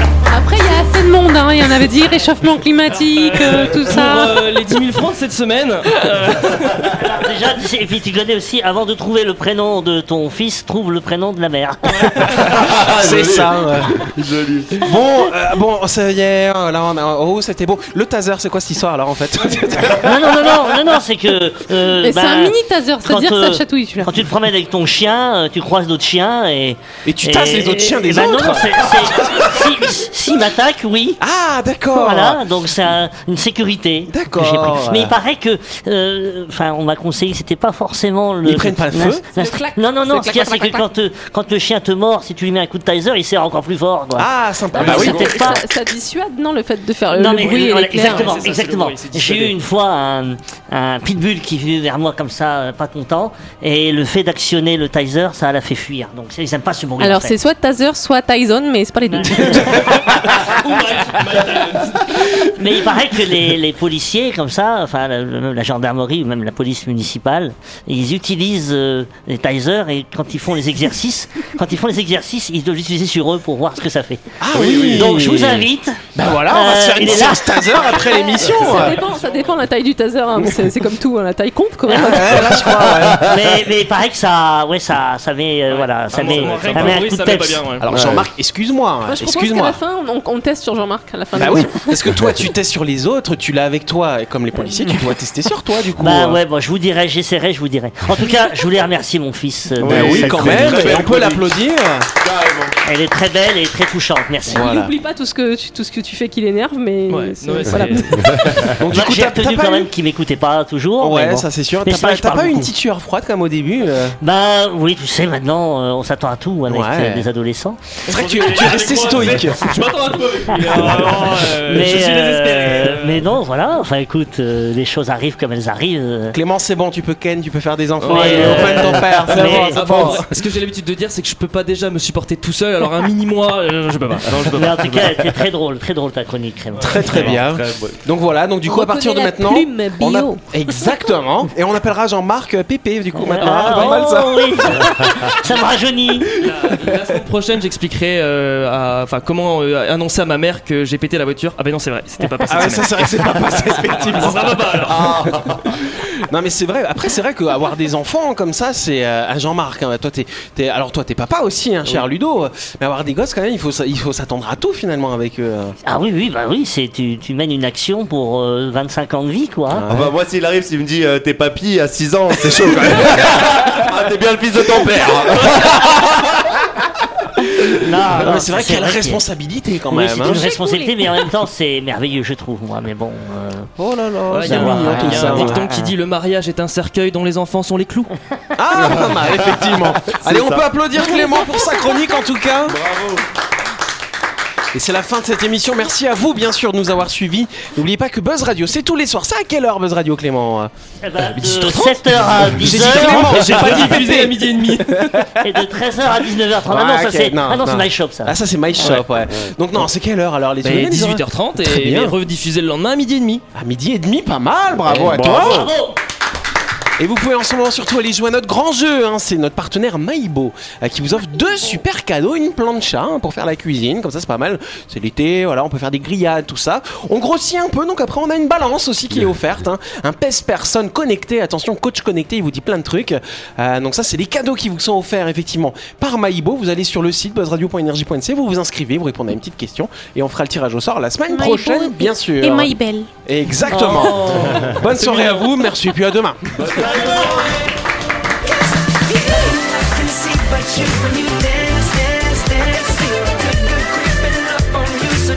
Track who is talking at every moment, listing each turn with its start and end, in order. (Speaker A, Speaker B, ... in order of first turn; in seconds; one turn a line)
Speaker A: 0.3-4.3
Speaker B: 3.2-6.9
Speaker C: 6.8-12.4
Speaker D: 12.2-14.9
Speaker E: 12.9-14.0
Speaker E: 14.8-20.6
Speaker C: 20.0-31.2
Speaker A: 22.0-24.1
Speaker E: 27.1-29.2
Speaker E: 31.2-32.4
Speaker C: 31.9-45.6
Speaker E: 34.1-35.1
Speaker E: 38.4-39.3
Speaker A: 39.3-40.9
Speaker E: 44.1-45.5
Speaker A: 44.7-48.3
Speaker C: 47.1-57.4
Speaker B: 47.4-49.5
Speaker A: 57.0-59.7
Speaker C: 59.0-60.1
Speaker E: 59.5-60.5
Speaker B: 59.8-62.3
Speaker C: 62.5-78.0
Speaker E: 74.4-79.0
Speaker D: 74.5-75.3
Speaker A: 78.0-82.6
Speaker B: 78.4-79.5
Speaker C: 81.9-82.2
Speaker E: 82.0-83.2
Speaker D: 82.7-83.3
Speaker C: 83.1-87.6
Speaker B: 85.7-87.8
Speaker E: 86.3-87.0
Speaker E: 87.8-89.8
Speaker D: 87.9-88.2
Speaker A: 89.0-92.1
Speaker E: 91.3-96.4
Speaker C: 96.0-101.0
Speaker D: 99.8-101.6
Speaker E: 99.8-102.1
Speaker D: 102.2-102.8
Speaker C: 102.8-104.7
Speaker A: 104.5-108.6
Speaker E: 104.5-104.9
Speaker B: 107.1-108.5
Speaker D: 108.1-108.8
Speaker E: 108.6-109.9
Speaker C: 108.9-112.7
Speaker E: 111.0-114.2
Speaker C: 114.2-117.8
Speaker E: 116.7-117.3
Speaker B: 118.0-123.3
Speaker E: 118.1-119.7
Speaker C: 120.5-126.4
Speaker E: 126.3-130.3
Speaker B: 128.0-135.4
Speaker C: 128.1-129.8
Speaker D: 128.2-130.2
Speaker C: 134.5-137.4
Speaker E: 136.8-144.8
Speaker D: 136.9-138.0
Speaker A: 138.6-141.2
Speaker C: 143.2-146.3
Speaker B: 146.4-155.3
Speaker C: 152.2-152.8
Speaker E: 152.5-165.7
Speaker D: 154.8-155.6
Speaker C: 165.8-169.8
Speaker E: 169.7-170.1
Speaker D: 169.9-176.5
Speaker C: 177.8-179.2
Speaker E: 178.1-180.5
Speaker C: 179.9-183.7
Speaker A: 180.2-181.0
Speaker E: 183.8-185.7
Speaker B: 184.3-188.1
Speaker C: 184.4-185.9
Speaker E: 188.5-192.8
Speaker D: 188.7-190.7
Speaker A: 190.9-192.3
Speaker D: 192.7-193.2
Speaker E: 194.7-200.7
Speaker C: 201.0-203.6
Speaker E: 201.3-205.4
Speaker B: 202.8-204.9
Speaker C: 205.4-209.1
Speaker E: 206.7-212.1
Speaker D: 209.2-209.5
Speaker B: 210.6-213.4
Speaker E: 213.5-215.7
Speaker D: 214.9-215.7
Speaker C: 214.9-216.0
Speaker E: 217.0-247.1
Speaker A: 241.3-243.1
Speaker B: 243.6-245.5
Speaker D: 246.6-247.6